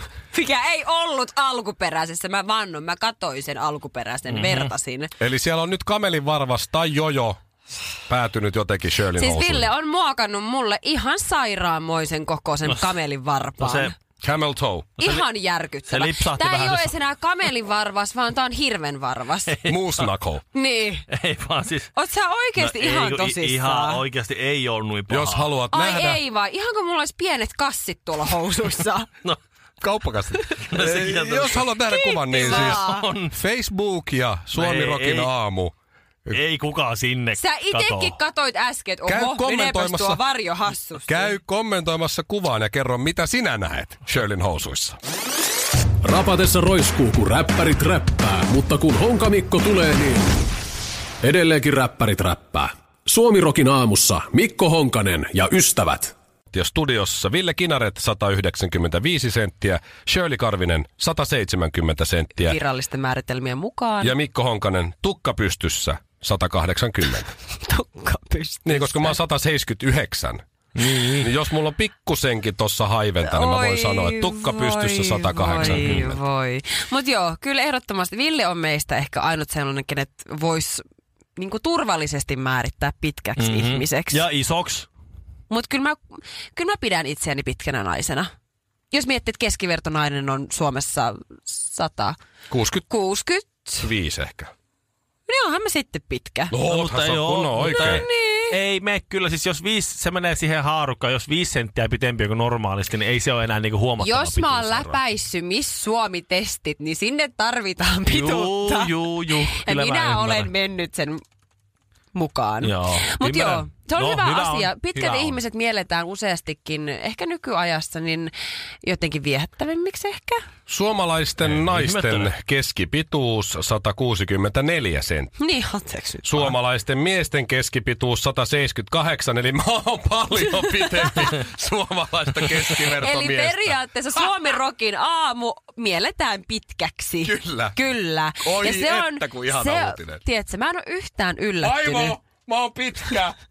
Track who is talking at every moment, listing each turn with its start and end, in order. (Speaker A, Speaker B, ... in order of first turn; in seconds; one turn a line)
Speaker A: 0.3-5.1
Speaker B: 4.3-4.7
Speaker C: 5.2-7.4
Speaker C: 8.1-9.7
Speaker A: 9.2-13.9
Speaker B: 13.6-13.9
Speaker C: 14.2-14.9
Speaker A: 15.0-19.5
Speaker B: 15.9-16.9
Speaker B: 19.5-20.1
Speaker C: 19.6-20.4
Speaker A: 20.5-21.1
Speaker B: 21.1-21.9
Speaker A: 21.9-24.0
Speaker B: 22.6-25.5
Speaker C: 25.1-26.2
Speaker A: 25.7-29.1
Speaker C: 29.8-35.7
Speaker B: 30.7-31.7
Speaker A: 31.9-33.0
Speaker B: 32.4-33.4
Speaker B: 34.5-35.3
Speaker B: 36.3-38.1
Speaker A: 37.4-41.4
Speaker C: 39.1-40.2
Speaker C: 41.1-45.0
Speaker D: 46.0-50.2
Speaker D: 51.2-56.1
Speaker C: 56.5-62.6
Speaker A: 62.4-64.1
Speaker C: 64.0-67.3
Speaker A: 67.6-69.2
Speaker C: 68.7-70.4
Speaker B: 70.8-71.3
Speaker C: 71.2-76.2
Speaker A: 73.2-80.8
Speaker B: 75.5-76.1
Speaker A: 81.4-84.2
Speaker B: 83.4-84.9
Speaker A: 85.5-88.3
Speaker A: 88.9-92.2
Speaker C: 92.5-92.9
Speaker A: 92.9-93.9
Speaker C: 93.8-94.5
Speaker A: 95.3-96.6
Speaker C: 96.5-98.0
Speaker B: 96.7-105.0
Speaker A: 97.6-98.5
Speaker A: 104.0-111.2
Speaker B: 108.1-110.5
Speaker A: 112.1-118.3
Speaker B: 112.6-115.4
Speaker A: 118.8-120.4
Speaker C: 120.7-125.4
Speaker B: 121.4-122.3
Speaker A: 125.4-126.5
Speaker C: 126.2-133.8
Speaker A: 130.8-131.2
Speaker A: 132.9-142.2
Speaker C: 137.2-137.8
Speaker C: 138.4-140.2
Speaker C: 141.6-143.3